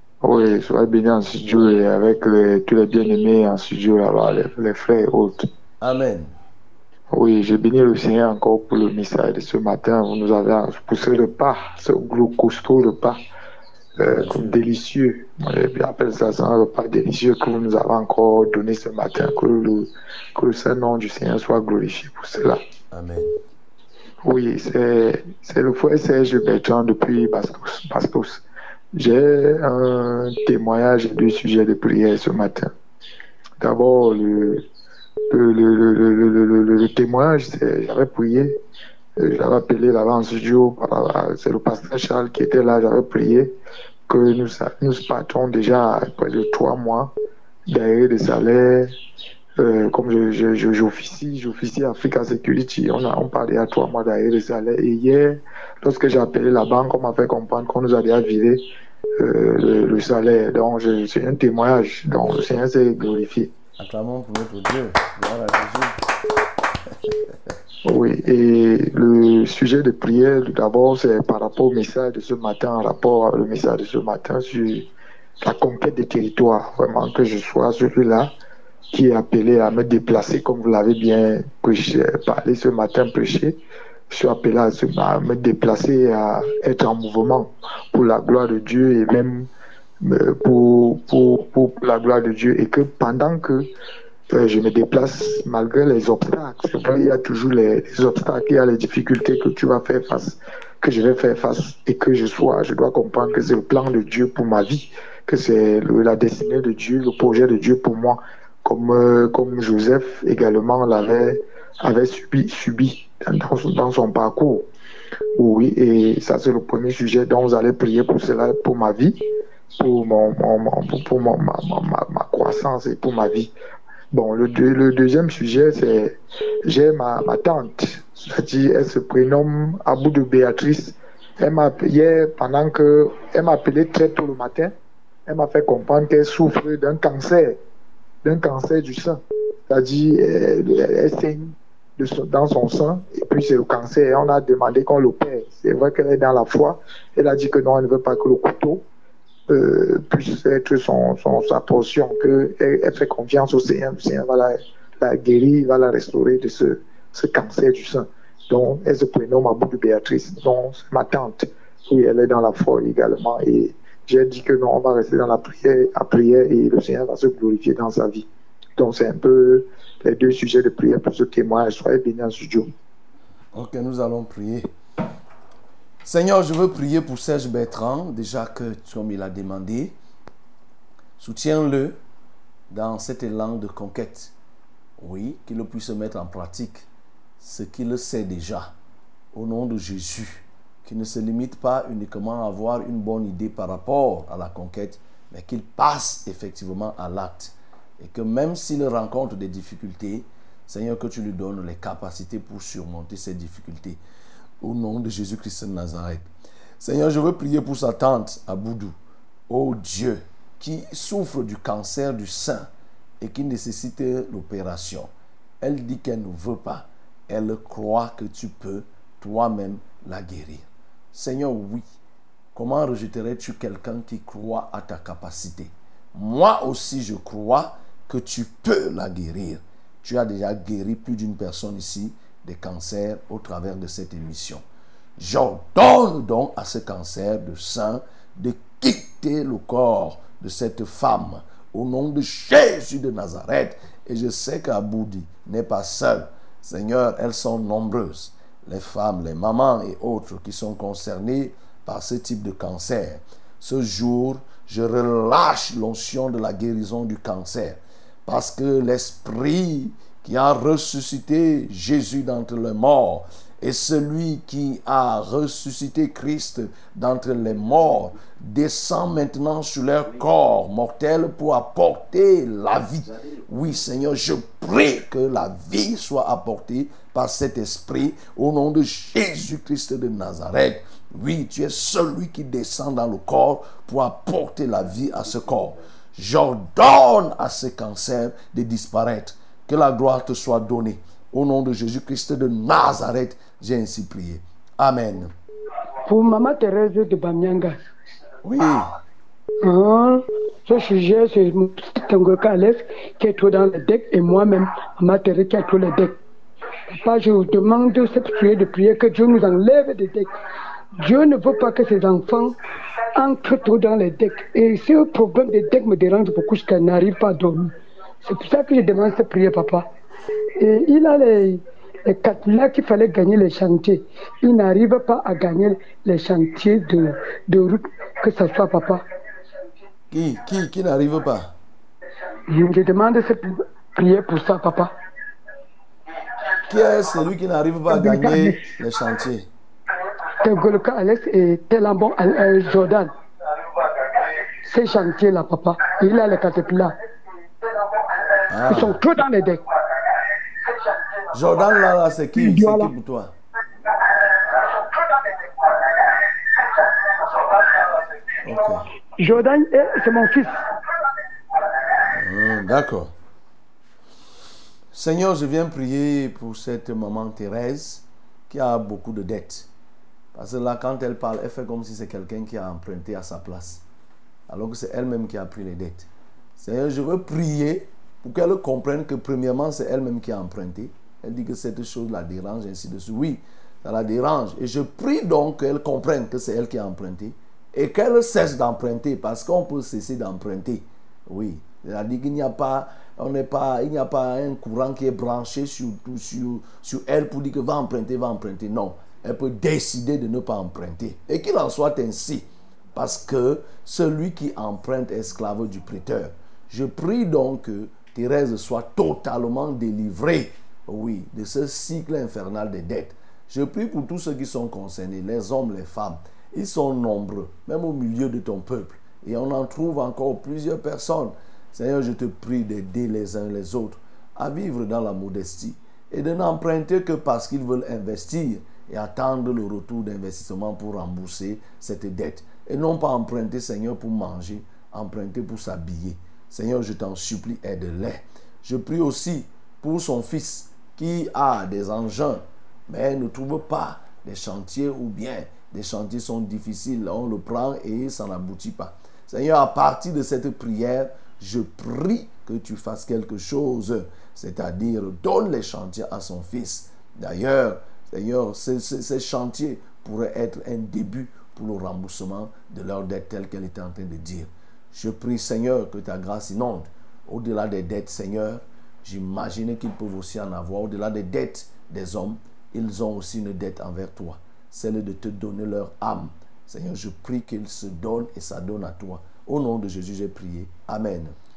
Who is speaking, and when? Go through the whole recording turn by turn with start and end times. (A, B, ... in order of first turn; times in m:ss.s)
0:00.2-0:05.5 A
0:05.8-0:06.4 B
0:07.1-0:13.2 A
0:14.0-0:14.6 B
0:14.0-0:22.6 A
0:22.9-0:23.3 B
0:24.2-0:28.4 A
0:28.9-0:32.7 A
0:33.6-0:34.6 A
0:35.3-0:38.6 A
0:39.2-0:43.5 A
0:44.1-0:47.1 A
0:47.7-0:48.9 A
0:49.6-0:58.6 A
0:59.2-1:03.5 A
1:03.8-1:05.9 B
1:07.8-1:14.9 A
1:15.4-1:18.3 A
1:18.9-1:23.6 A
1:24.1-1:29.5 A
1:30.0-1:33.7 A
1:34.3-1:54.6 A
1:55.4-1:59.2 A
1:59.8-2:03.5 A
2:04.1-2:14.7 A
2:15.3-2:17.6 A
2:18.2-2:28.8 A
2:29.5-2:52.7 A
2:53.5-2:54.7 B
2:56.0-3:00.0 B
3:01.2-3:02.0 B
3:02.7-3:04.3 B
3:05.0-3:06.9 B
3:07.4-3:08.7 B
3:09.3-3:24.0 B
3:24.6-3:26.3 B
3:26.8-3:29.0 B
3:29.5-3:32.7 B
3:33.2-3:41.9 B
3:42.5-3:54.6 B
3:55.2-4:55.3 B
4:56.0-4:57.8 C
4:58.4-4:58.9 B
4:59.6-5:06.2 C
5:06.9-5:10.3 C
5:11.0-5:12.6 C
5:13.2-5:19.8 C
5:20.6-5:29.0 C
5:30.1-5:31.5 B
5:32.5-5:34.9 C
5:36.7-5:39.5 B
5:37.9-5:38.6 C
5:40.4-5:43.1 C
5:44.6-5:46.9 C
5:48.5-5:49.0 B
5:48.6-5:49.6 C
5:51.3-5:53.3 B
5:52.4-5:52.9 C
5:58.4-5:58.9 B
5:59.2-6:00.6 C
6:02.1-6:03.1 B
6:04.9-6:09.7 B
6:10.3-6:13.8 B
6:14.5-8:01.4 B